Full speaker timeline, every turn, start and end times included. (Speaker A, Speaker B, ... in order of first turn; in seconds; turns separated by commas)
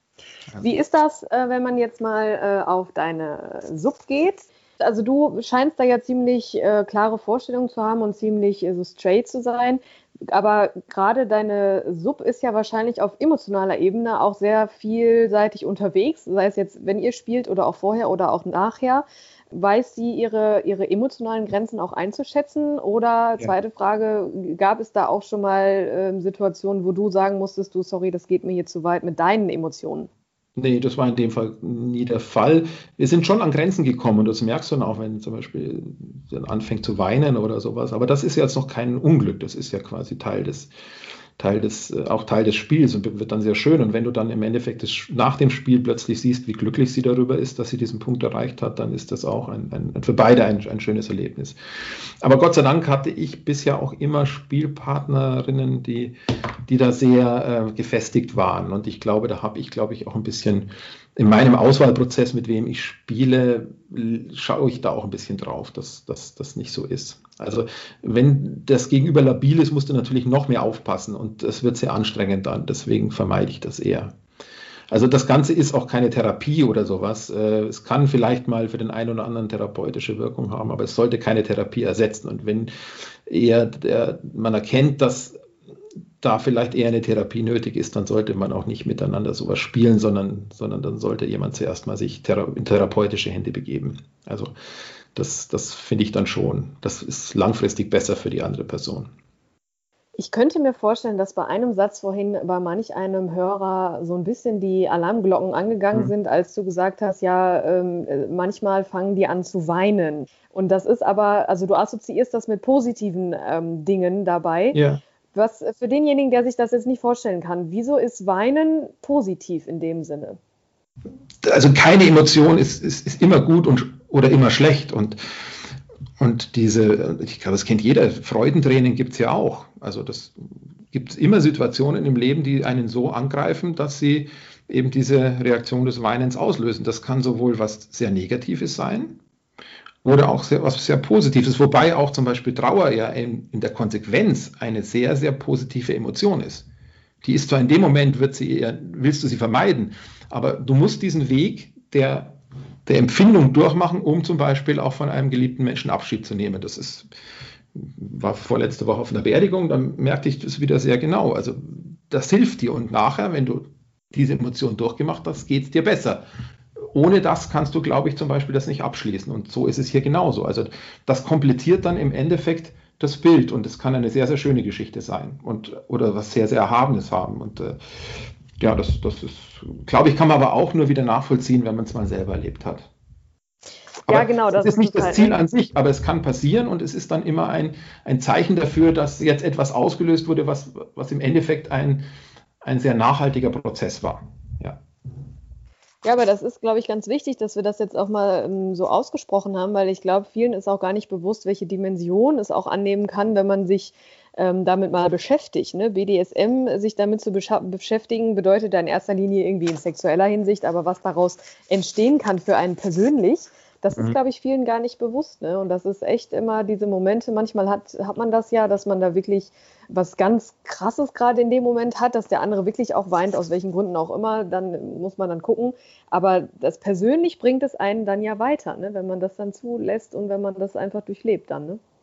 Speaker A: 0.6-30.1, Speaker B: 30.6-40.7, Speaker B: 41.4-74.1, Speaker B: 74.9-82.7, Speaker B: 83.3-85.3, Speaker B: 86.2-94.5, Speaker B: 95.2-99.1, Speaker A: 100.2-114.8, Speaker B: 114.7-115.0, Speaker A: 115.3-120.4, Speaker B: 121.4-125.2, Speaker B: 126.2-139.2, Speaker B: 140.0-146.7, Speaker B: 147.2-157.1, Speaker B: 157.7-166.2, Speaker B: 166.8-182.9, Speaker B: 184.1-192.1, Speaker A: 184.1-185.4, Speaker B: 192.6-194.8, Speaker A: 196.0-231.8